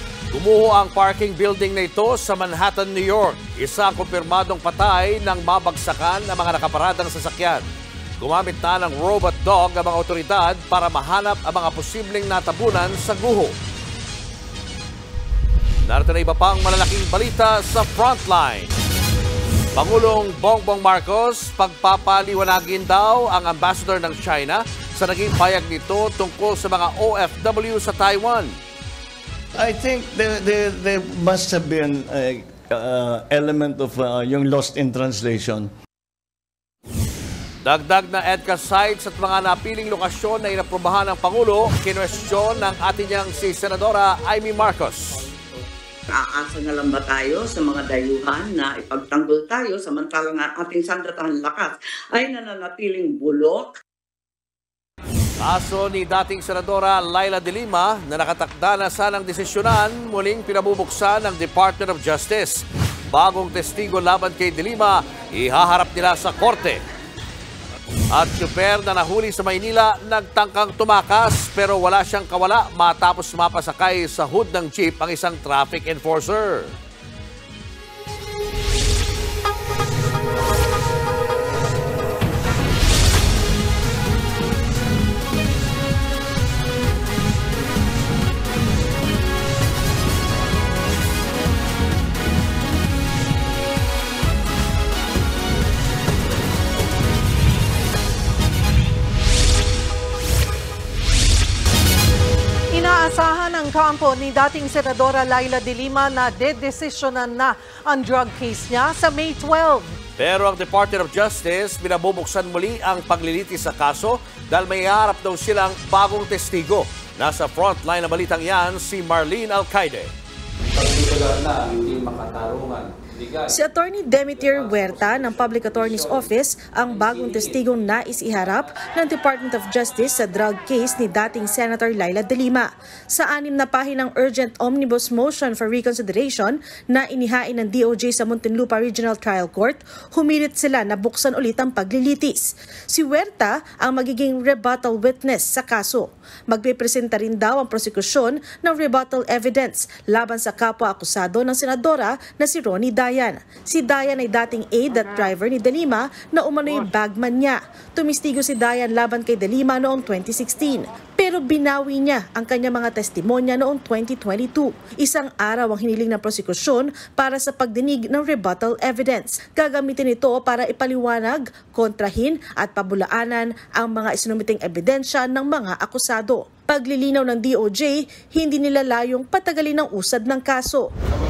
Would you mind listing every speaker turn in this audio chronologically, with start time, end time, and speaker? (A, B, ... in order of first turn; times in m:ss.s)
0:00.3-0:07.7 A
0:08.2-0:13.6 A
0:15.8-0:18.7 A
0:19.8-0:28.6 A
0:29.6-0:35.7 B
0:37.6-0:45.3 A
0:46.1-0:53.8 C
0:55.4-1:06.8 A
1:08.1-1:16.7 A
1:42.7-1:50.0 D
1:50.2-2:00.1 A
2:00.7-2:03.5 A
2:03.5-3:00.9 E
2:04.4-2:06.3 A
2:07.2-2:07.5 A